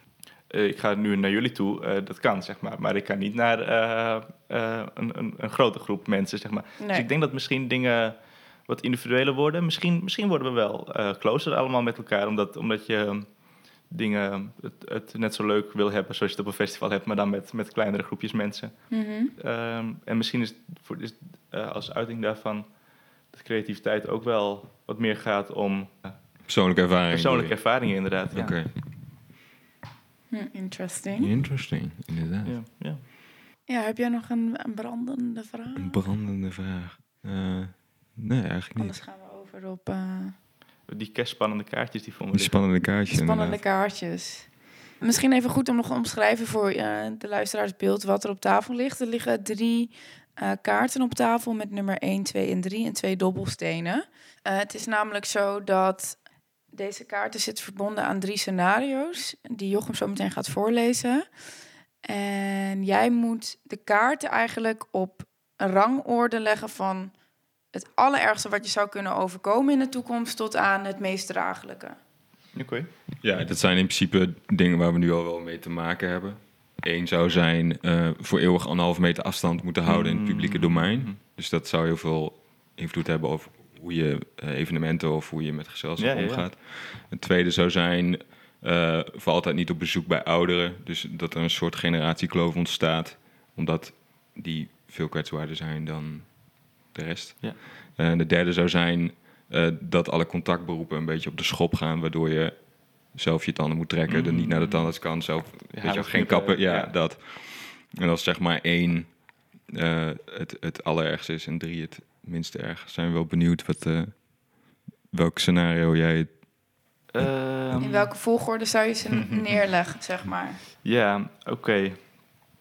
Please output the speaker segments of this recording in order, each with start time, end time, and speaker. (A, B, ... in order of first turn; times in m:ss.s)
0:00.5-0:08.2 A
0:06.8-0:07.1 B
0:08.7-0:13.3 A
0:13.9-0:22.7 A
0:18.9-0:19.3 B
0:23.3-0:26.2 A
0:26.5-0:27.8 C
0:27.1-0:28.6 A
0:28.3-0:28.7 C
0:30.3-0:31.3 B
0:31.2-0:32.6 C
0:32.5-0:33.0 A
0:33.7-0:36.0 B
0:35.8-0:39.0 C
0:38.8-0:40.4 B
0:40.9-0:42.6 A
0:42.3-0:43.6 C
0:43.1-0:56.2 B
0:56.7-1:01.3 B
1:02.0-1:07.2 B
1:07.7-1:12.0 B
1:12.6-1:12.9 A
1:13.2-1:54.4 C
1:19.9-1:21.2 A
1:26.0-1:26.5 A
1:44.1-1:46.9 A
1:55.1-1:56.4 C
1:57.1-1:58.1 A
1:57.2-1:57.9 C
1:57.8-2:00.6 B
2:00.8-2:02.0 A